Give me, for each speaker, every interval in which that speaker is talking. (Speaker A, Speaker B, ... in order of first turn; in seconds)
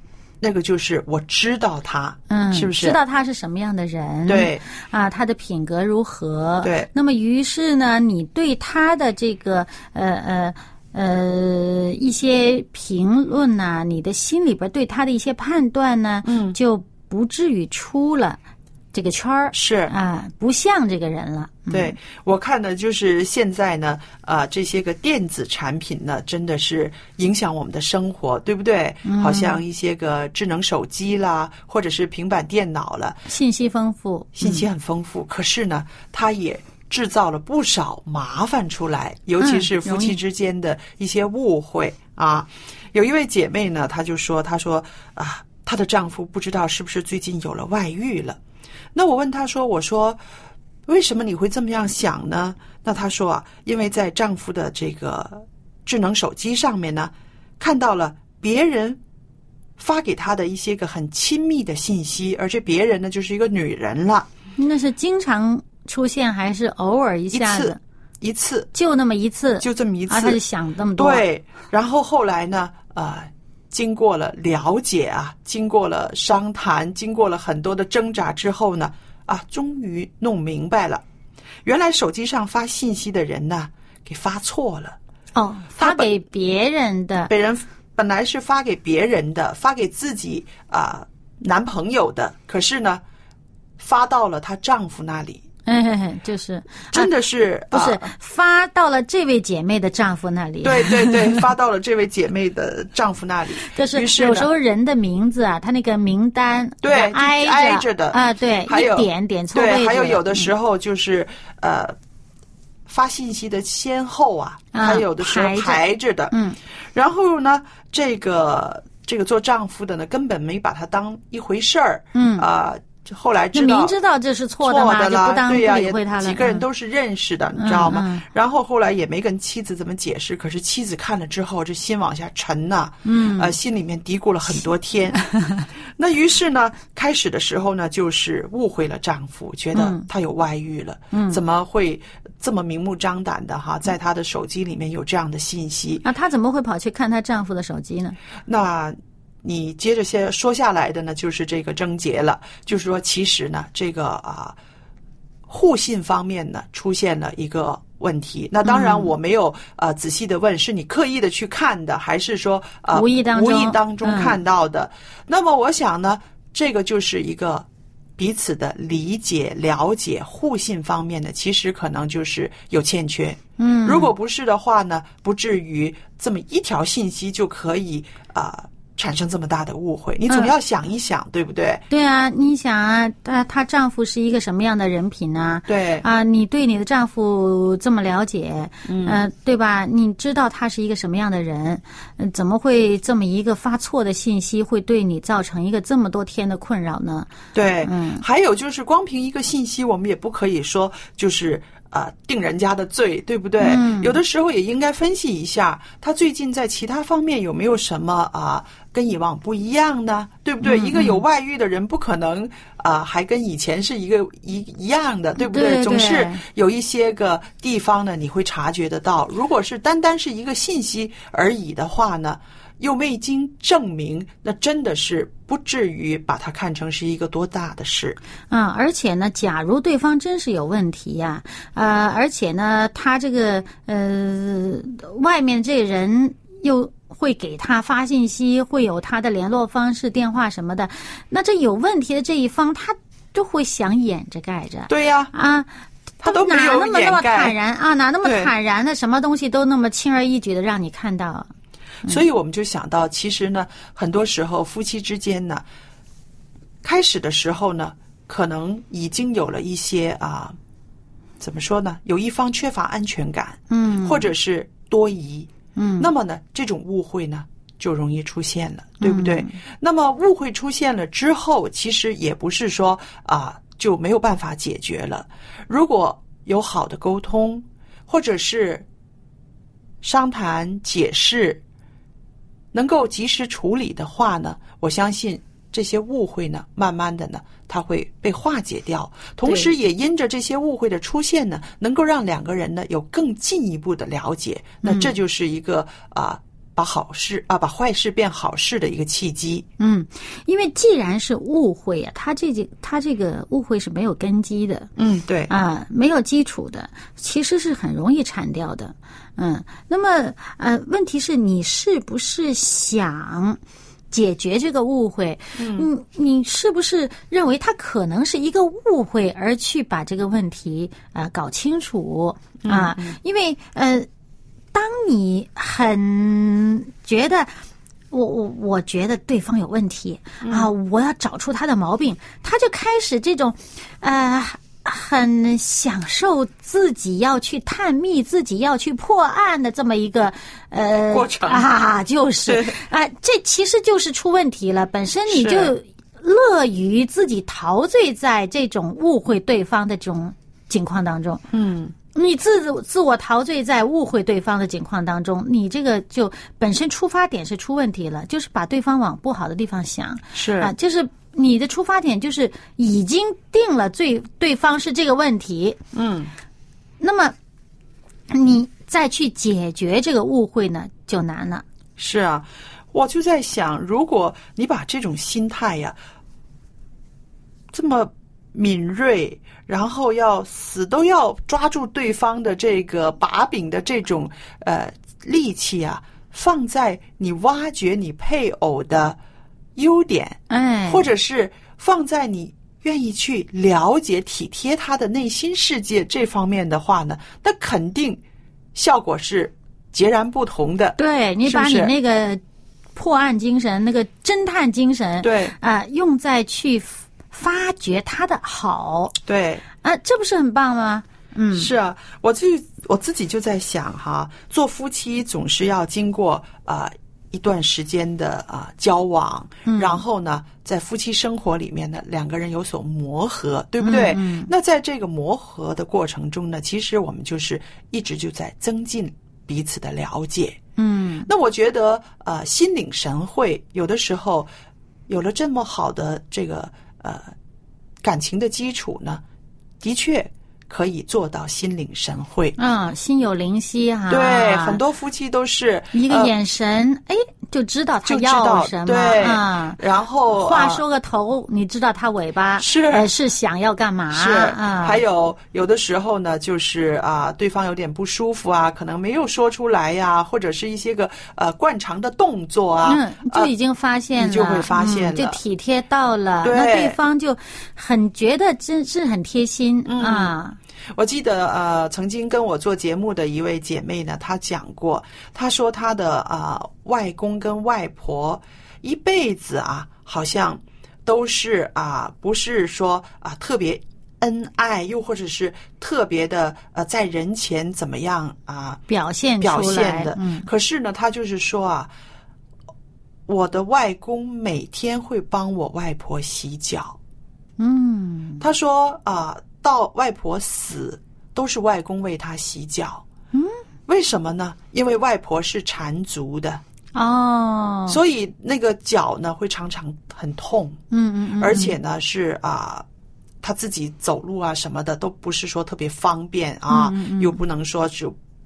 Speaker A: 0.4-3.0, 4.3-4.7, 6.6-6.9, 16.2-16.6, 19.5-19.9, 21.7-33.3, 34.4-48.4, 48.9-50.2, 50.9-59.0, 59.8-64.3, 67.3-68.7, 69.6-70.4, 71.0-81.0, 81.6-85.0, 85.8-86.1, 87.3-93.0, 93.8-95.4, 96.9-98.1, 100.6-104.5, 106.8-112.0, 112.9-116.3, 116.9-123.9, 124.6-135.2, 136.0-146.0, 148.4-154.6, 155.5-181.8, 185.7-186.1, 188.9-189.2, 197.5-228.2, 244.9-245.3, 246.2-247.6, 248.2-248.5, 252.1-255.7, 256.8-260.6, 261.4-278.9, 280.0-281.6, 282.7-299.7, 305.0-305.5, 315.6-315.9, 322.6-323.2, 330.4-330.7, 341.1-341.7, 342.5-342.8, 345.3-345.7, 351.5-351.9, 360.4-360.7, 365.9-366.3, 372.0-376.0, 377.7-389.2, 389.8-398.2, 398.7-401.9, 405.2-405.6, 409.2-409.6, 411.5-430.6, 431.3-434.5, 435.1-437.3, 438.0-439.2, 439.8-442.6, 444.1-446.3, 448.1-450.8, 452.6-453.1, 454.1-463.5, 464.2-465.4, 466.4-467.0, 469.9-470.3, 470.9-488.8, 489.4-491.9, 493.3-497.0, 498.4-503.1, 503.9-506.6, 507.9-510.8, 511.4-512.9, 513.4-518.2
Speaker B: 2.3-18.4, 18.9-22.0, 29.1-29.6, 33.3-34.6, 39.4-40.2, 64.6-67.8, 68.7-71.2, 85.3-87.3, 95.7-97.1, 97.7-101.5, 103.7-110.5, 114.7-116.6, 122.1-122.5, 123.5-126.6, 127.6-128.2, 133.1-133.6, 135.3-135.7, 139.8-140.1, 141.1-141.4, 146.0-148.2, 158.6-159.1, 162.9-164.4, 173.6-174.1, 180.3-180.5, 181.9-197.3, 197.8-198.2, 203.6-204.2, 210.6-211.2, 215.4-216.4, 228.5-245.7, 246.2-251.5, 263.7-264.3, 265.8-266.1, 269.0-269.6, 289.5-289.7, 294.8-295.1, 299.8-304.9, 305.5-313.6, 314.1-324.1, 324.7-327.5, 328.1-351.4, 352.1-365.8, 367.0-367.4, 368.3-371.6, 390.5-391.1, 401.0-402.4, 402.9-409.1, 409.8-411.7, 419.7-420.0, 423.8-424.5, 430.8-431.3, 442.6-444.8, 445.9-449.8, 450.3-455.0, 462.9-470.6, 488.9-490.5, 497.6-498.4, 506.9-508.0, 510.9-511.8, 516.7-517.4